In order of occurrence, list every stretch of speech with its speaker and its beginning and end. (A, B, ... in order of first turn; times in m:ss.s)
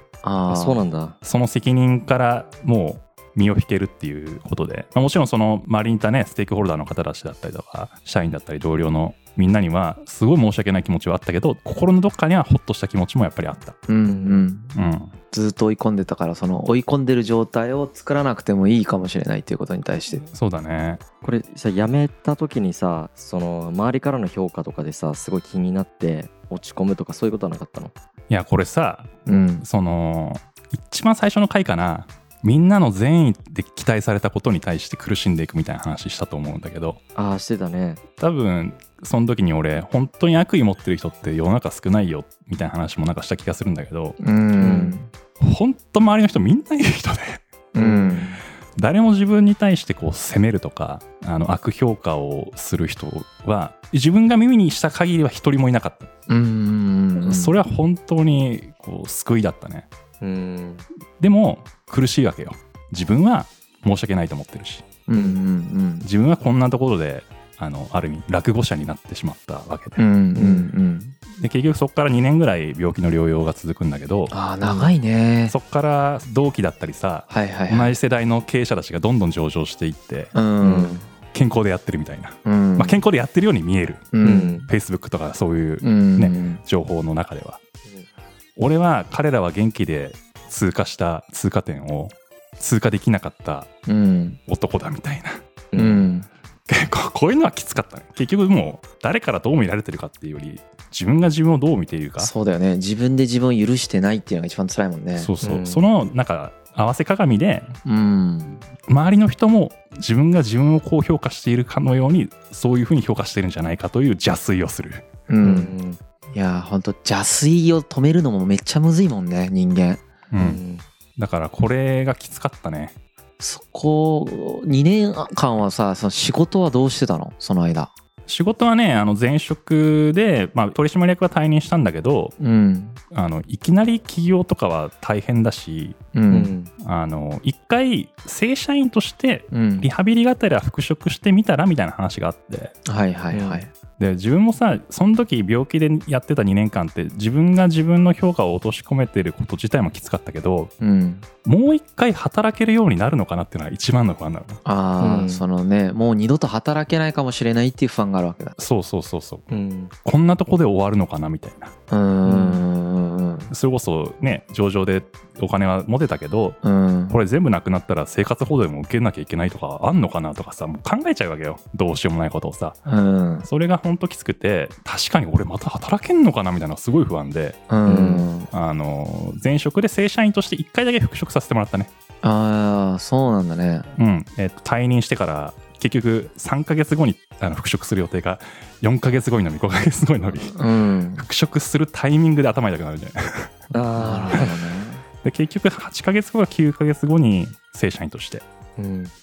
0:00.2-0:00.8 A
0:00.5-0:01.2 B
0:01.2-0:13.8 C
0:13.9-0:14.7 A
0:14.0-0:14.5 B
0:14.8-0:15.1 C
0:15.3-0:20.2 A
0:20.3-0:21.0 C
0:21.2-0:27.9 B
0:28.3-0:37.0 C
0:29.3-0:29.6 A
0:37.2-0:38.0 B
0:38.2-0:44.2 C
0:44.2-0:45.1 A
0:44.6-0:45.0 B
0:45.4-0:47.4 C
0:47.7-0:48.4 A
0:47.8-0:48.3 B
0:48.8-0:56.1 C
0:56.3-0:57.6 A
0:57.2-0:59.9 C
1:00.2-1:00.9 B
1:01.2-1:04.8 C
1:05.1-1:06.1 A
1:06.0-1:10.0 C
1:10.0-1:11.2 A
1:10.4-1:10.7 B
1:11.3-1:14.4 C
1:14.3-1:15.5 A
1:15.5-1:20.3 C
1:17.3-1:17.9 A
1:20.3-1:21.1 A
1:20.6-1:21.0 B
1:21.3-1:24.1 C
1:22.4-1:23.0 A
1:24.1-1:24.6 A
1:24.2-1:24.7 B
1:24.6-1:27.6 C
1:25.8-1:26.6 A
1:28.6-1:33.7 C
1:33.9-1:34.4 A
1:34.5-1:35.4 C
1:35.7-1:36.1 B
1:35.8-1:36.3 A
1:36.7-1:42.3 C
1:42.2-1:45.3 A
1:45.2-1:47.8 C
1:45.4-1:45.8 B
1:47.8-1:48.6 A
1:48.9-1:55.1 C
1:55.3-1:55.7 A
1:55.4-1:56.0 B
1:56.3-2:00.1 A
2:00.3-2:00.6 C
2:00.4-2:00.8 B
2:01.2-2:03.0 C
2:03.4-2:07.9 A
2:08.3-2:12.4 C
2:12.4-2:13.0 A
2:13.1-2:16.0 C
2:16.1-2:16.5 A
2:16.3-2:16.7 B
2:16.8-2:22.7 C
2:19.5-2:19.9 A
2:22.8-2:23.7 A
2:23.3-2:23.6 B
2:24.0-2:30.7 C
2:30.8-2:31.3 A
2:31.4-2:34.6 C
2:34.6-2:38.6 A
2:35.0-2:35.4 B
2:38.6-2:39.5 C
2:39.5-2:39.9 B
2:40.0-2:41.7 C
2:41.9-2:43.5 A
2:42.2-2:42.6 B
2:43.5-2:52.8 C
2:46.6-2:47.2 A
2:52.9-2:53.5 A
2:53.4-2:57.6 C
2:57.7-2:58.5 A
2:57.9-2:58.3 B
2:58.5-3:01.9 C
3:02.2-3:03.9 A
3:04.0-3:10.6 C
3:10.5-3:11.2 A
3:11.2-3:13.6 C
3:13.7-3:15.0 B
3:14.0-3:14.6 A
3:15.2-3:18.4 C
3:18.8-3:19.1 B